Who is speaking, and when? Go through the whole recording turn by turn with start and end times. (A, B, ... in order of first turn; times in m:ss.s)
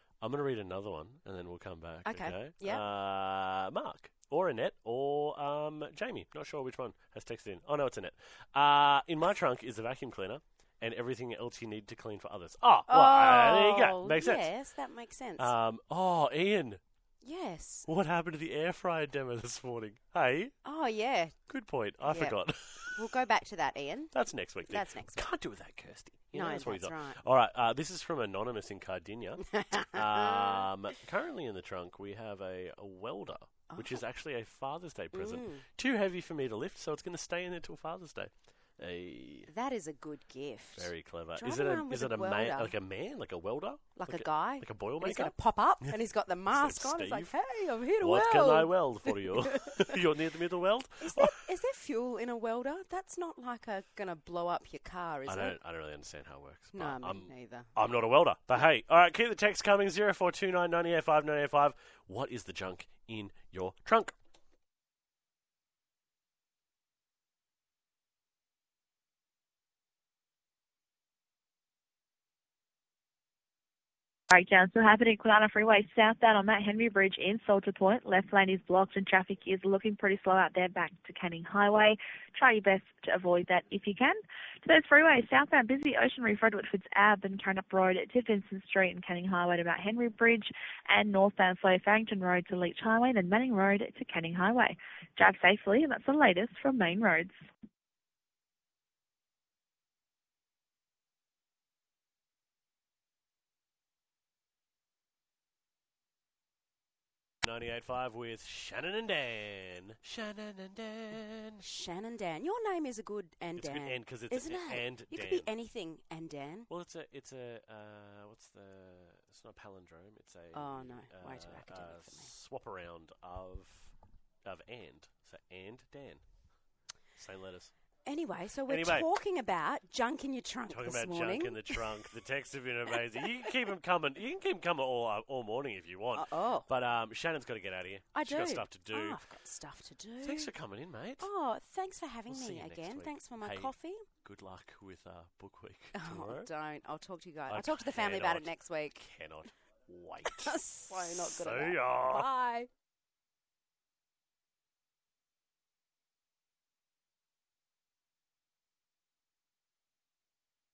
0:00.2-0:14.5 A
0:02.0-0:02.8 B
0:12.9-0:15.5 B
0:15.4-0:16.8 A
0:17.2-0:17.9 B
0:17.9-0:20.5 A
0:20.6-0:21.4 B
0:21.5-0:22.9 A
0:22.0-0:22.4 B
0:22.9-0:24.1 B
0:24.1-0:39.5 A
0:24.7-0:25.2 B
0:26.3-0:27.2 B
0:29.5-0:30.6 B
0:35.1-0:35.6 B
0:39.5-0:42.7 B
0:40.8-0:46.0 A
0:44.0-0:50.0 B
0:46.5-0:47.3 A
0:48.0-0:51.4 A
0:51.0-0:55.6 B
0:55.2-1:04.1 A
0:56.7-0:57.7 B
1:14.3-1:37.4 C
1:47.4-1:51.6 A
1:51.6-1:56.7 B
1:53.6-1:55.5 A
1:56.7-2:03.9 A
2:00.5-2:02.3 B
2:04.4-2:06.2 A
2:07.2-2:07.7 A
2:08.1-2:11.9 B
2:08.7-2:09.1 A
2:10.7-2:19.2 A
2:16.1-2:16.7 B
2:18.1-2:20.5 B
2:20.2-2:21.3 A
2:21.2-2:24.0 B
2:22.3-2:26.5 A
2:25.9-2:29.0 B
2:27.5-2:32.3 A
2:30.2-2:32.7 B